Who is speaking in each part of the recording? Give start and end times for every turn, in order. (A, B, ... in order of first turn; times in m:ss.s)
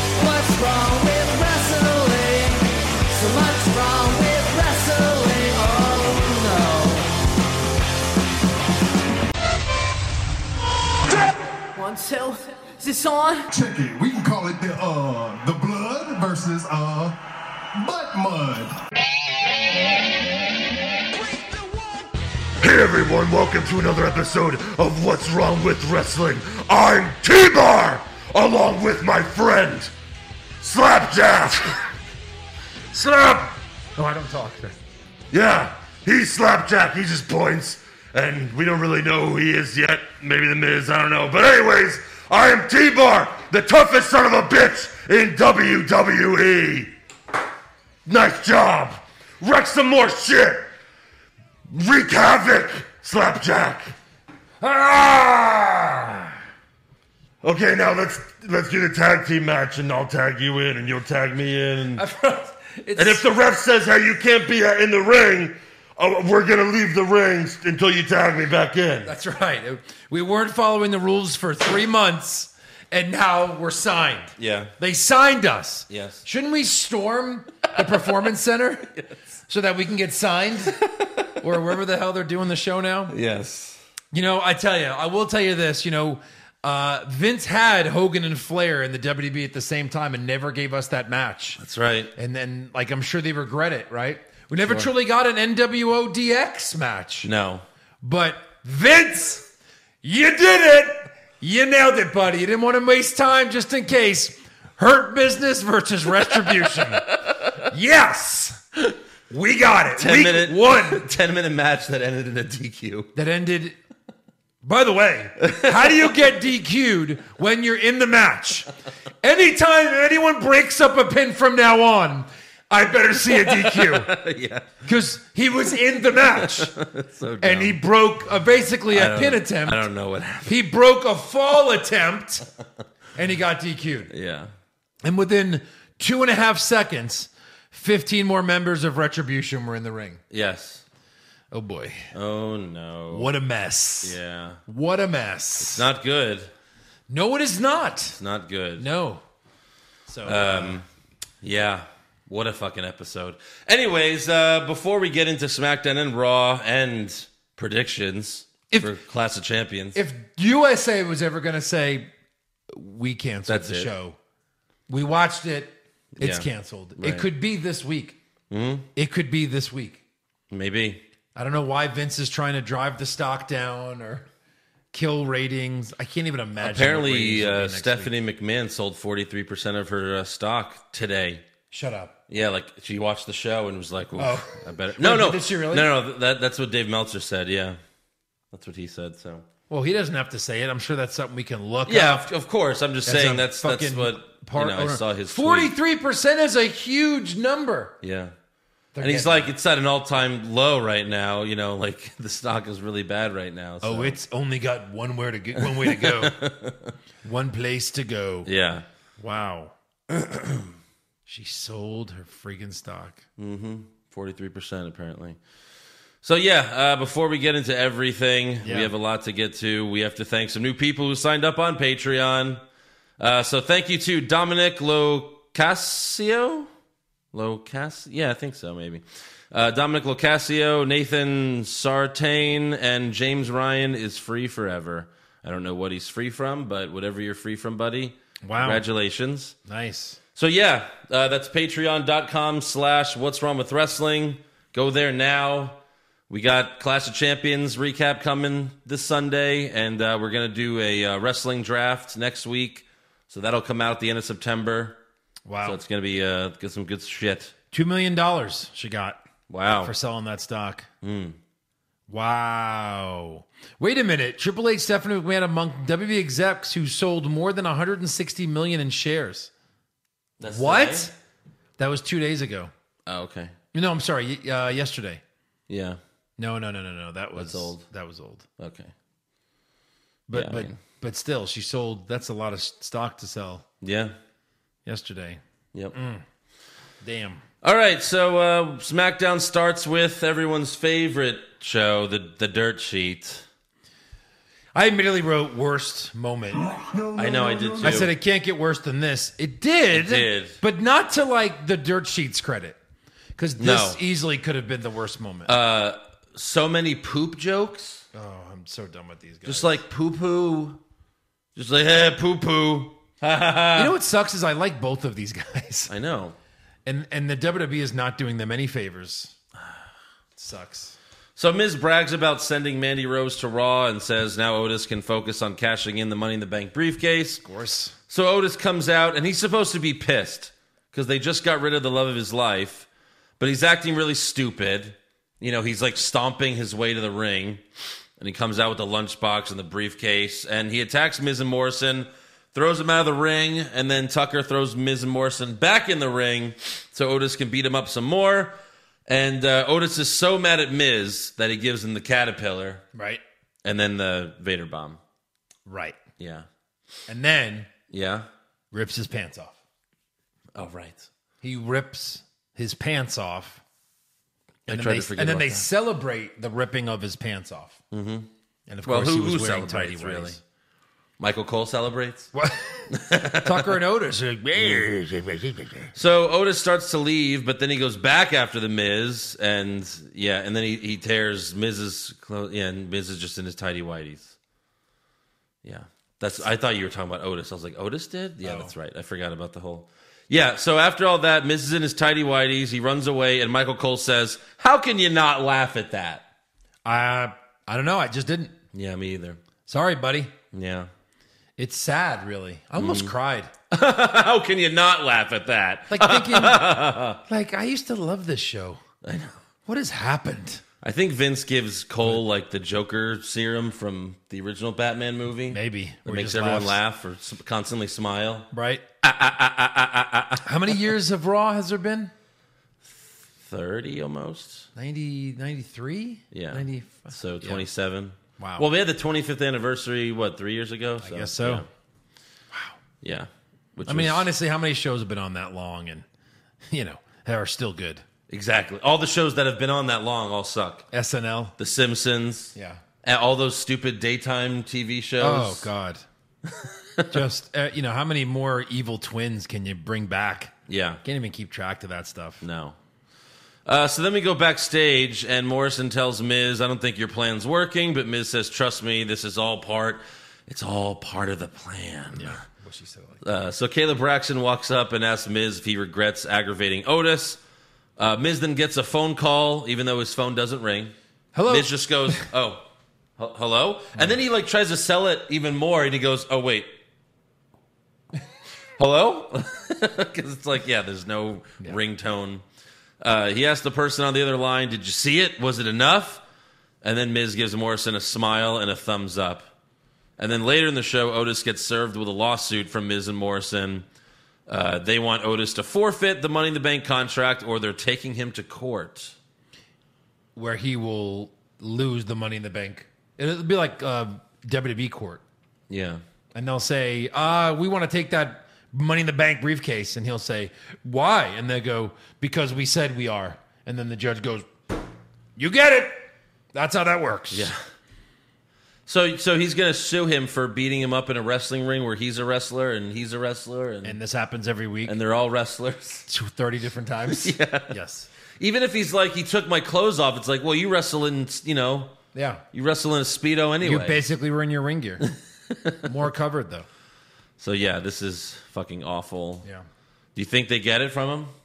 0:00.2-0:07.1 A
0:11.7-0:13.5 A
0:13.5-0:17.2 B
0:17.7-0:18.8 B
0:22.6-0:29.9 C
0:30.6-0:31.8 C
0:32.9-0:33.6 C
0:34.0-0:34.8 D
0:35.3-0:46.9 C
0:48.0-0:50.7 C
0:51.7-0:53.9 C
0:54.6-0:56.3 C
0:57.4-1:02.0 C
1:01.9-1:03.2 D
1:03.0-1:09.1 C
1:09.0-1:18.9 D
1:14.4-1:14.7 E
1:15.9-1:16.2 E
1:19.5-1:20.8 D
1:20.8-1:21.5 E
1:21.4-1:23.2 D
1:23.1-1:23.8 E
1:24.1-1:31.6 D
1:31.6-1:32.1 E
1:32.1-1:37.3 D
1:34.6-1:34.9 E
1:37.2-1:37.6 E
1:38.0-1:39.5 D
1:40.0-1:51.1 D
1:46.5-1:47.5 E
1:50.0-1:53.1 E
1:53.1-1:53.8 D
1:54.6-1:58.7 D
1:55.4-1:56.2 E
1:59.2-2:04.1 D
2:03.4-2:04.8 E
2:04.8-2:06.7 D
2:06.3-2:07.8 E
2:07.4-2:09.8 D
2:08.9-2:10.6 E
2:10.4-2:12.4 D
2:13.1-2:14.1 D
2:14.1-2:14.5 E
2:15.0-2:20.2 D
2:20.3-2:20.8 E
2:21.5-2:22.1 D
2:22.1-2:23.3 E
2:23.1-2:25.9 D
2:24.0-2:24.6 E
2:25.6-2:26.5 E
2:27.1-2:28.2 D
2:28.2-2:28.8 E
2:28.8-2:29.2 D
2:30.1-2:30.8 D
2:30.2-2:30.8 E
2:31.4-2:40.0 E
2:39.9-2:42.1 D
2:42.7-2:44.2 D
2:43.5-2:43.9 E
2:44.9-2:48.2 D
2:46.2-2:47.3 E
2:48.5-2:48.9 E
2:49.0-2:50.0 D
2:50.5-2:51.0 E
2:51.4-2:54.3 D
2:54.9-2:58.1 D
2:56.6-3:01.4 E
3:01.7-3:02.1 D
3:02.3-3:07.8 E
3:04.2-3:05.9 D
3:08.5-3:09.4 E
3:09.7-3:12.3 D
3:11.9-3:15.7 E
3:13.0-3:18.0 D
3:18.0-3:18.3 E
3:18.9-3:19.5 D
3:19.0-3:24.2 E
3:23.8-3:26.4 D
3:25.6-3:26.9 E
3:27.2-3:28.5 D
3:28.4-3:28.8 E
3:29.2-3:29.7 D
3:30.1-3:30.7 E
3:31.3-3:33.2 D
3:33.4-3:35.4 E
3:36.2-3:42.6 E
3:38.6-3:38.9 D
3:43.2-3:46.7 E
3:47.3-3:59.5 E
3:58.4-3:58.8 D
3:59.6-4:00.2 D
4:00.4-4:15.0 E
4:15.4-4:15.8 D
4:15.6-4:17.5 E
4:17.7-4:19.2 D
4:19.5-4:19.9 E
4:19.8-4:20.9 D
4:21.0-4:21.4 E
4:22.1-4:29.5 D
4:30.4-4:31.1 E
4:30.4-4:31.1 D
4:31.8-4:32.7 D
4:33.0-4:33.5 E
4:33.7-4:35.2 D
4:35.7-4:36.0 E
4:36.4-4:38.4 D
4:37.3-4:37.8 E
4:38.6-4:38.9 E
4:40.3-4:43.6 D
4:40.3-4:40.8 E
4:43.8-4:44.1 E
4:44.8-4:45.4 D
4:45.9-4:46.2 D
4:47.0-4:47.4 D
4:47.6-4:53.4 E
4:54.7-4:56.6 D
4:56.6-4:58.1 C
4:57.2-4:58.1 E
4:57.8-5:02.8 D
4:59.9-5:00.6 E
5:03.4-5:05.5 D
5:03.6-5:04.0 E
5:05.4-5:08.0 E
5:08.1-5:09.8 D
5:09.4-5:10.8 E
5:11.5-5:14.0 E
5:13.7-5:15.9 D
5:15.9-5:16.4 E
5:16.8-5:19.3 D
5:20.4-5:21.0 D
5:21.4-5:27.4 E
5:27.4-5:28.0 D
5:28.1-5:32.9 E
5:33.4-5:37.6 E
5:38.2-5:48.5 E
5:49.1-5:52.8 E
5:52.9-5:53.2 D
5:53.6-5:55.0 E
5:55.7-5:56.0 D
5:56.2-5:56.5 E
5:57.1-5:57.7 D
5:57.9-5:58.3 E
5:58.7-5:59.6 D
6:00.5-6:01.1 E
6:01.4-6:03.6 D
6:04.7-6:05.7 E
6:04.7-6:07.8 D
6:07.9-6:08.3 E
6:08.7-6:10.4 D
6:08.8-6:10.4 E
6:11.2-6:12.3 E
6:12.3-6:15.9 D
6:12.9-6:13.7 E
6:15.9-6:24.4 E
6:25.6-6:36.2 E
6:28.4-6:28.7 D
6:36.8-6:38.6 D
6:38.7-6:39.4 E
6:39.7-6:40.3 D
6:40.5-6:40.9 E
6:41.6-6:43.5 D
6:42.8-6:43.1 E
6:43.7-6:47.2 E
6:45.9-6:46.7 D
6:47.2-6:48.8 D
6:49.0-6:49.4 E
6:49.6-6:50.6 D
6:50.8-6:58.5 E
6:55.5-6:56.8 D
6:58.5-6:58.8 D
6:59.0-7:00.8 E
7:00.4-7:02.1 D
7:02.8-7:04.7 E
7:04.8-7:07.6 D
7:06.3-7:11.7 E
7:08.4-7:08.7 D
7:11.0-7:11.6 D
7:13.0-7:14.3 E
7:13.8-7:16.0 D
7:16.7-7:18.0 D
7:18.3-7:20.9 E
7:20.9-7:21.6 D
7:21.6-7:25.7 E
7:22.5-7:22.8 D
7:25.2-7:26.0 D
7:26.5-7:27.2 E
7:27.1-7:30.5 D
7:30.7-7:31.0 E
7:31.0-7:32.4 D
7:32.4-7:32.8 E
7:33.6-7:42.4 E
7:42.1-7:43.2 D
7:43.2-7:47.4 E
7:48.0-7:50.9 E
7:51.3-7:52.2 D
7:51.5-7:52.6 E
7:53.2-7:56.7 E
7:58.8-8:02.4 E
8:03.0-8:06.2 E
8:06.8-8:09.5 E
8:10.2-8:13.8 E
8:14.5-8:19.2 E
8:20.3-8:25.2 D
8:25.7-8:26.0 E
8:26.3-8:34.5 D
8:35.4-8:37.5 D
8:37.3-8:37.6 E
8:38.8-8:44.0 E
8:43.8-8:45.0 D
8:44.8-8:46.1 E
8:46.1-8:48.1 D
8:47.1-8:47.8 E
8:48.4-8:51.9 E
8:52.1-8:52.4 D
8:52.5-8:54.0 E
8:53.6-8:55.1 D
8:55.0-8:55.9 E
8:55.8-8:56.6 D
8:57.4-8:59.4 E
9:00.1-9:01.3 E